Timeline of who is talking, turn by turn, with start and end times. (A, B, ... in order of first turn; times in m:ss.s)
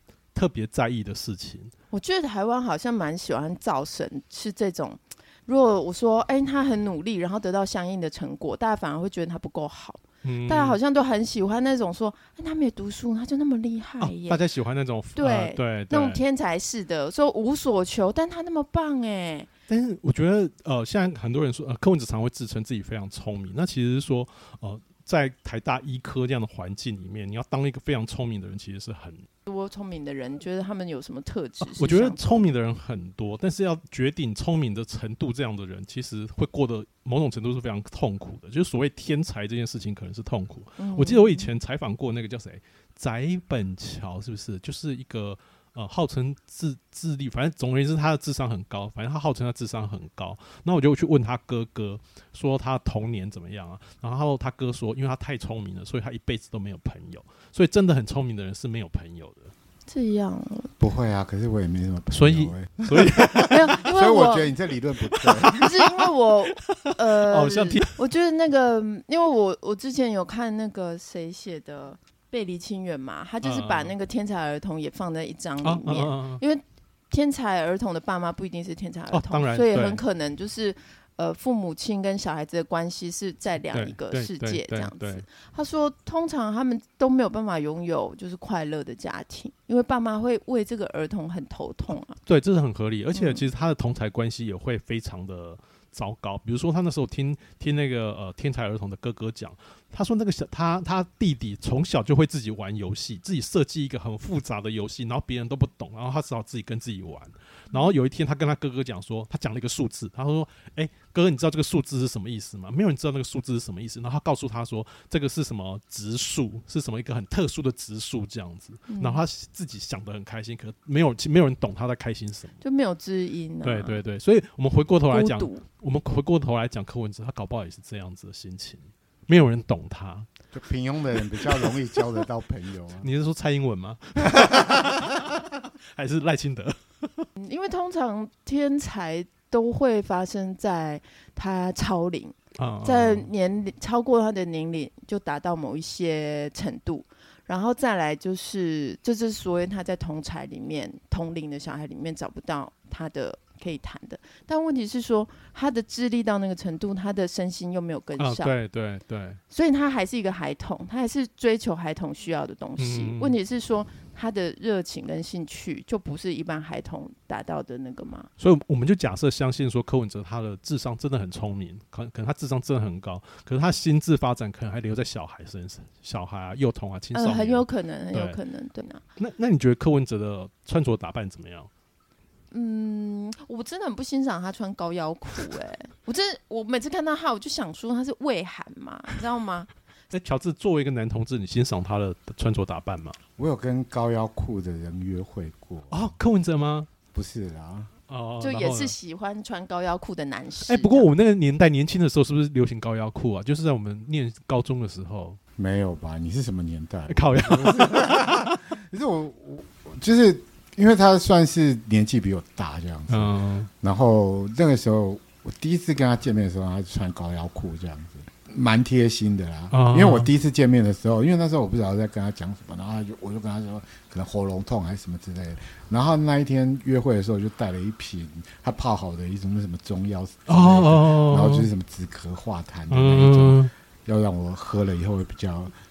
0:00.3-0:01.7 A
0:01.9-0:14.4 B
0:10.2-0:10.8 A
0:14.0-0:16.2 A
0:15.2-0:19.5 B
0:19.7-0:29.3 A
0:29.5-0:32.5 B
0:31.6-0:59.5 A
0:40.8-0:41.5 B
0:59.9-1:00.7 B
1:00.8-1:05.7 C
1:02.1-1:03.7 A
1:03.5-1:04.5 B
1:05.1-1:05.6 A
1:05.5-1:32.2 B
1:06.5-1:08.0 A
1:13.4-1:13.9 A
1:15.6-1:16.4 A
1:19.1-1:20.0 A
1:23.7-1:25.2 A
1:32.3-2:02.6 A
1:33.1-1:33.4 B
1:47.7-1:48.0 B
1:58.9-1:59.2 B
2:02.6-2:04.0 B
2:03.6-2:10.3 A
2:05.1-2:05.6 B
2:10.5-2:13.1 C
2:13.0-2:17.3 A
2:14.3-2:15.2 C
2:17.4-2:38.5 B
2:22.6-2:23.3 A
2:38.2-2:39.4 A
2:39.5-2:48.3 B
2:42.8-2:43.4 A
2:48.4-2:58.4 A
2:57.1-2:59.0 B
2:59.2-3:01.7 A
3:02.5-3:09.7 B
3:10.1-3:13.2 A
3:13.4-3:16.1 C
3:15.9-3:16.9 A
3:17.1-3:17.9 C
3:18.1-3:19.0 A
3:18.4-3:21.1 B
3:20.7-3:25.4 A
3:25.6-3:55.7 C
3:27.1-3:28.6 A
3:33.1-3:33.7 A
3:39.7-3:40.3 A
3:50.5-3:51.7 A
3:52.9-3:53.7 A